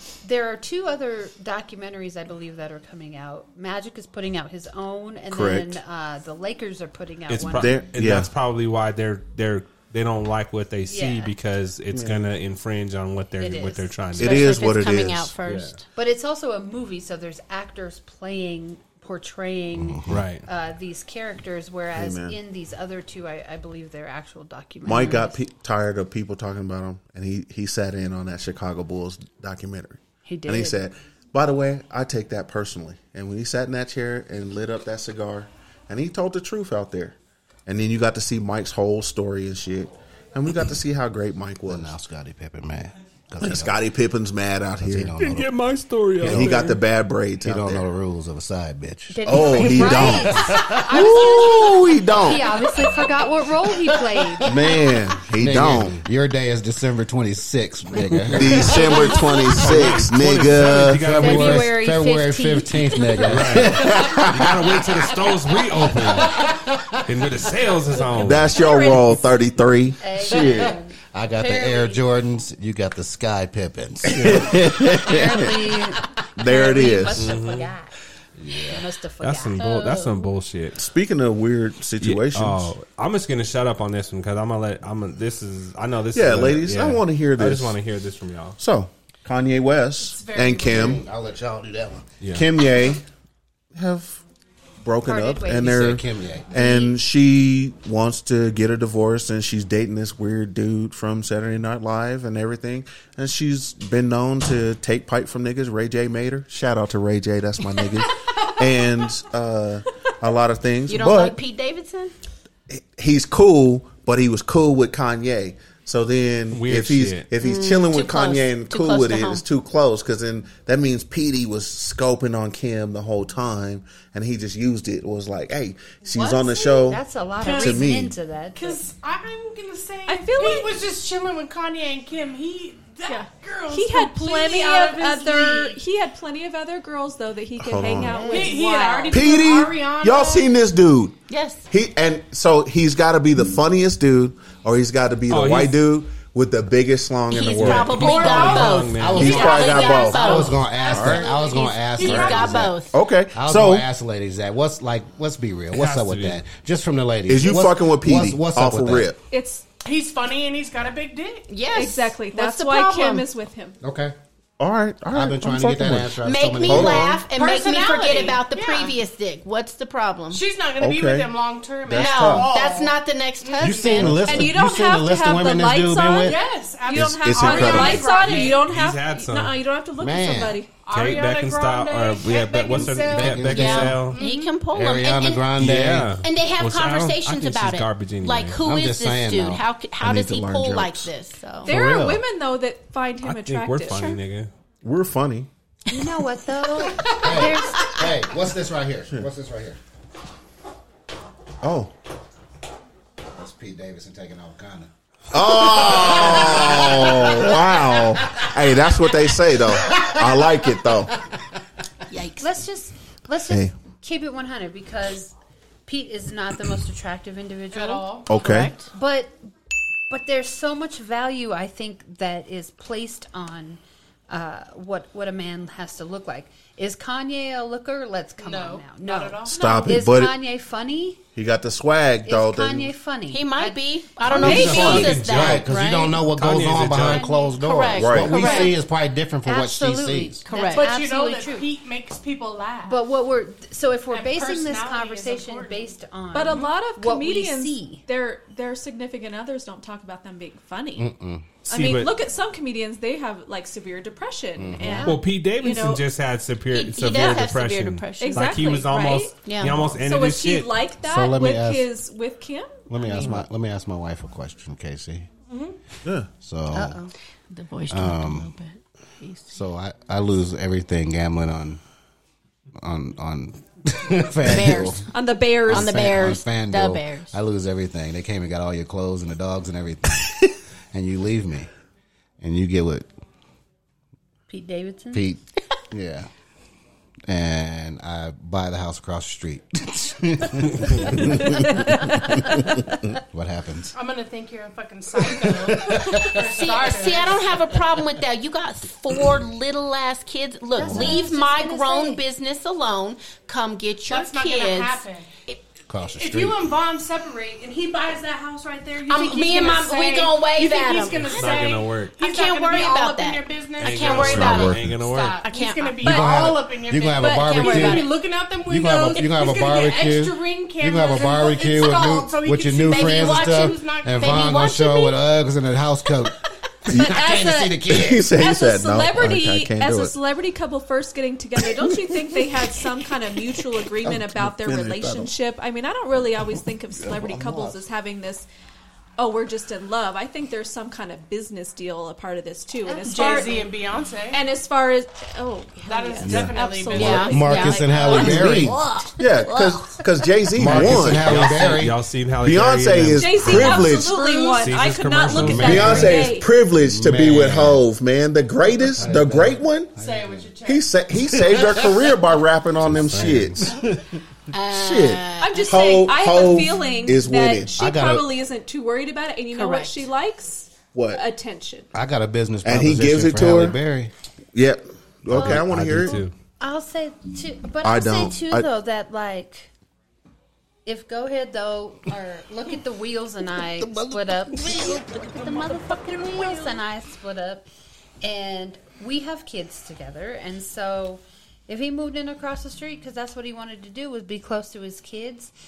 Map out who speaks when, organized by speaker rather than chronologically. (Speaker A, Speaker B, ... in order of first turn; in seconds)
Speaker A: 0.2-7.7, 10.9-11.3, 13.4-13.9, 15.9-25.4, 30.2-30.8, 49.1-54.5, 58.7-59.6, 61.1-63.6, 70.0-72.0, 74.9-77.9, 78.5-80.0, 95.0-95.9, 96.5-97.0, 126.2-128.8, 138.0-138.6, 195.9-198.0, 212.4-215.3, 215.9-218.2, 218.8-219.3, 220.1-231.2, 232.2-233.9, 237.0-237.6, 239.4-241.7, 242.9-248.0, 254.8-255.1, 284.5-285.3, 300.8-302.2, 342.9-343.7, 375.3-376.1, 376.6-379.7, 380.9-387.7, 388.2-395.5
Speaker B: 5.3-5.8, 7.5-8.3, 11.9-12.3, 14.2-15.3, 21.9-22.4, 24.9-41.9, 43.4-45.2, 46.2-47.9, 49.3-52.5, 54.4-56.0, 58.3-61.0, 63.7-64.5, 68.2-70.8, 74.1-75.6, 76.4-77.3, 80.8-82.7, 86.1-87.8, 88.6-91.0, 92.3-93.0, 93.8-94.2, 94.8-111.4, 112.7-128.2, 137.6-138.3, 139.1-141.2, 141.7-151.4, 152.0-153.9, 157.3-159.2, 164.6-167.3, 170.8-172.6, 174.0-174.4, 176.9-178.3, 190.0-191.1, 194.8-195.5, 201.6-201.9, 205.3-211.2, 213.5-213.7, 218.3-218.7, 229.5-230.4, 231.3-232.9, 234.3-235.2, 238.0-238.7, 263.1-263.4, 314.1-315.0, 326.9-330.1, 334.0-335.3, 337.0-337.8, 349.2-351.6, 352.4-354.7, 355.6-359.9, 360.7-364.0, 364.7-367.8, 370.9-371.2, 372.6-373.8, 374.5-376.2, 377.8-378.7
Speaker C: 7.3-14.6, 15.4-15.8, 20.1-20.5, 45.2-46.8, 58.2-61.7, 63.3-66.5, 67.0-68.6, 74.2-74.5, 77.1-77.7, 79.2-80.8, 82.0-88.6, 92.2-92.5, 116.5-117.3, 145.3-145.8, 147.6-149.6, 155.7-156.4, 178.3-179.6, 180.9-184.2, 185.6-188.6, 193.2-194.5, 234.4-237.3, 251.7-252.1, 255.1-260.8, 311.2-312.2, 313.8-315.4, 350.6-356.1, 362.8-363.6, 376.0-376.3
Speaker D: 14.2-15.8, 79.6-80.3, 110.9-112.1, 117.4-119.5, 141.3-141.7, 147.3-150.7, 151.4-153.0, 161.5-163.3, 166.2-170.4, 171.9-174.4, 183.4-185.6, 186.2-191.7, 196.9-197.2, 212.1-212.5, 218.3-218.9, 233.3-236.3, 237.6-238.8, 240.4-241.0, 256.7-258.8, 259.4-260.0, 266.8-269.6, 274.4-275.0, 275.7-277.4, 296.3-305.6, 309.1-316.2, 317.5-318.1, 322.8-325.2, 346.9-350.1, 364.5-365.7, 369.5-370.1
Speaker E: 19.8-20.3, 41.7-43.8, 44.8-45.6, 46.2-46.7, 47.4-51.4, 54.1-59.2, 60.8-64.5, 65.9-67.0, 70.3-75.4, 78.4-78.8, 90.6-92.1, 95.6-96.5, 148.1-152.8, 153.3-159.1, 163.8-164.2, 165.1-167.2, 173.6-176.4, 180.0-180.6, 182.9-184.1, 184.7-186.2, 188.6-189.7, 191.7-192.2, 197.2-199.8, 203.3-207.7, 209.9-210.4, 234.4-240.4, 251.0-251.5, 254.6-255.1, 261.0-261.9, 262.9-265.3, 266.4-267.0, 267.9-268.5, 269.5-271.8, 272.8-275.1, 275.7-281.7, 282.4-283.1, 285.1-286.3, 287.3-292.6, 293.2-293.9, 295.4-296.4, 300.8-301.2, 305.9-306.7, 316.0-318.1, 318.7-326.4, 326.9-328.3, 346.2-348.8, 350.6-352.0, 355.3-357.9, 358.9-360.5, 361.3-362.1, 362.9-364.0, 367.8-368.3, 371.9-374.1, 375.3-376.3, 383.8-385.2
Speaker F: 90.0-91.0, 126.2-126.8, 127.4-127.9, 128.5-135.8, 138.3-140.6, 148.0-152.8, 159.8-161.5, 167.2-169.0, 170.3-174.1, 176.2-178.7, 180.8-184.6, 217.7-218.3, 228.4-229.8, 240.6-243.0, 244.1-246.7, 255.6-256.1, 265.5-265.8, 293.9-297.7, 304.1-305.3, 306.2-324.6, 343.0-344.5, 345.8-348.3, 360.0-360.9
Speaker G: 130.1-130.8, 133.1-139.2, 159.3-159.7, 161.7-163.8, 174.2-180.8, 191.6-194.2, 234.4-235.0, 246.3-251.1, 251.7-255.2, 258.2-263.2, 275.1-276.2, 326.9-338.5, 339.2-343.7, 344.3-348.7, 353.2-356.5, 365.4-371.9